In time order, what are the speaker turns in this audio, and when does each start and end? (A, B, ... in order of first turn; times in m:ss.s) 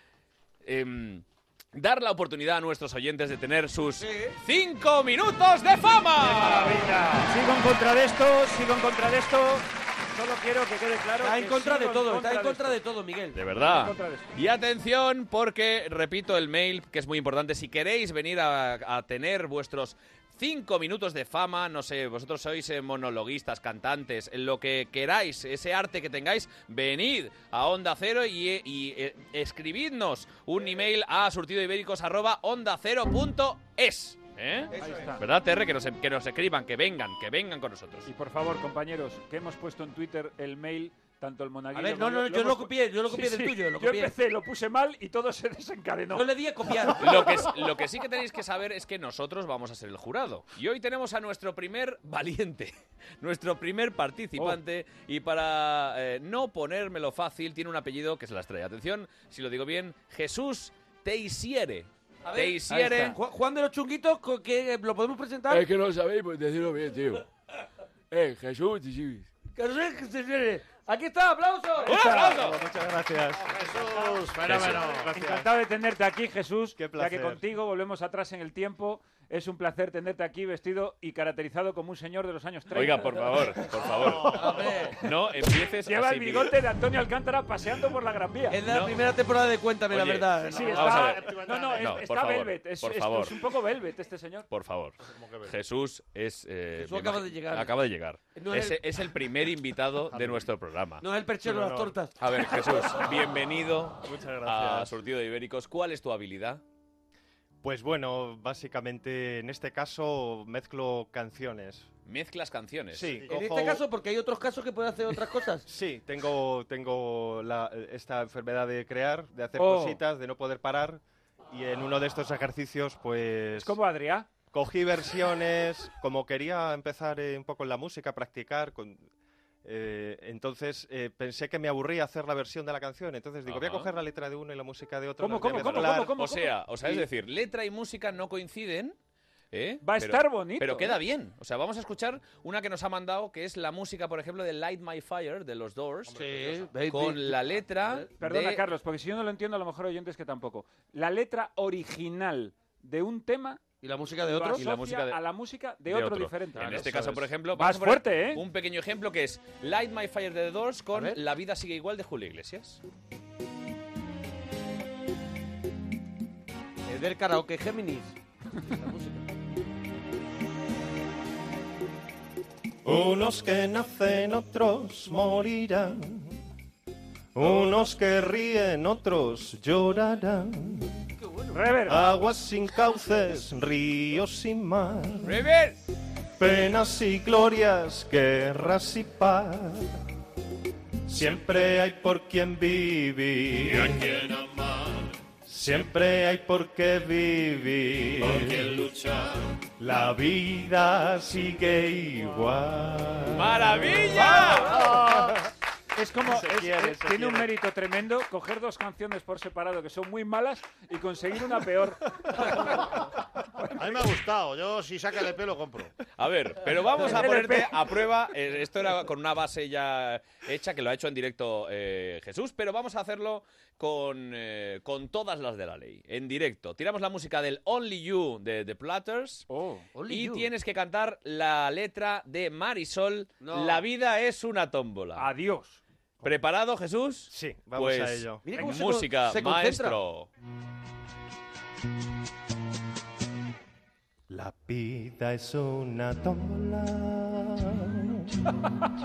0:00.6-0:06.8 A
0:04.0-0:04.4 B
0:06.3-0:12.8 C
0:11.2-0:13.4 B
0:13.3-0:38.1 A
0:13.6-0:14.3 C
0:34.7-0:35.1 B
0:34.8-0:35.2 C
0:38.0-0:46.3 C
0:41.7-0:44.1 B
0:46.1-0:47.4 B
0:47.0-1:03.2 A
1:02.2-1:05.7 B
1:05.5-1:07.2 D
1:08.1-1:09.3 D
1:09.5-1:12.1 B
1:11.8-1:12.6 A
1:11.9-1:12.4 C
1:12.1-1:15.4 E
1:13.6-1:14.3 F
1:14.4-1:14.9 A
1:14.5-1:25.1 C
1:16.8-1:17.4 E
1:22.7-1:26.5 A
1:24.2-1:25.0 B
1:25.8-1:28.6 C
1:28.5-1:31.2 B
1:28.6-1:29.0 A
1:29.9-1:33.3 A
1:30.4-1:34.5 C
1:30.8-1:31.8 F
1:34.5-1:41.0 A
1:35.0-1:35.5 F
1:36.8-1:37.7 B
1:38.3-1:38.8 B
1:40.1-1:40.4 F
1:41.0-1:42.1 B
1:41.4-1:42.0 E
1:42.2-1:46.6 A
1:44.0-1:44.9 E
1:47.6-1:51.9 E
1:52.0-1:53.2 A
1:52.9-1:53.8 E
1:53.2-1:55.6 B
1:55.7-2:03.8 E
1:59.6-2:00.0 C
2:03.6-2:04.3 C
2:04.5-2:09.0 E
2:09.6-2:16.2 E
2:13.4-2:13.9 A
2:15.2-2:17.0 C
2:15.3-2:19.0 A
2:19.5-2:26.4 A
2:19.8-2:21.0 C
2:26.1-2:26.7 F
2:26.1-2:28.1 B
2:26.9-2:28.6 A
2:28.2-2:33.6 C
2:33.8-2:34.7 B
2:34.2-2:38.4 C
2:34.6-2:35.2 A
2:35.9-2:42.8 A
2:36.6-2:37.3 B
2:40.9-2:41.2 B
2:46.9-2:49.2 B
2:52.8-2:56.4 E
2:57.3-3:00.9 E
3:01.2-3:01.6 B
3:01.5-3:02.1 C
3:01.9-3:05.4 E
3:05.2-3:05.8 A
3:06.4-3:09.9 E
3:11.0-3:14.2 E
3:15.4-3:18.8 E
3:19.8-3:25.3 E
3:23.3-3:24.8 A
3:24.5-3:25.2 C
3:26.0-3:32.9 C
3:26.2-3:27.5 E
3:33.6-3:34.0 C
3:33.8-3:35.9 F
3:36.2-3:49.5 A
3:36.9-3:37.9 C
3:49.5-3:49.9 C
3:49.9-3:50.5 B
3:50.1-3:55.3 A
3:53.4-3:53.8 B
3:55.2-3:55.8 C
3:56.2-4:00.3 A
3:57.3-3:58.4 E
3:58.4-4:00.0 B
4:04.3-4:08.3 E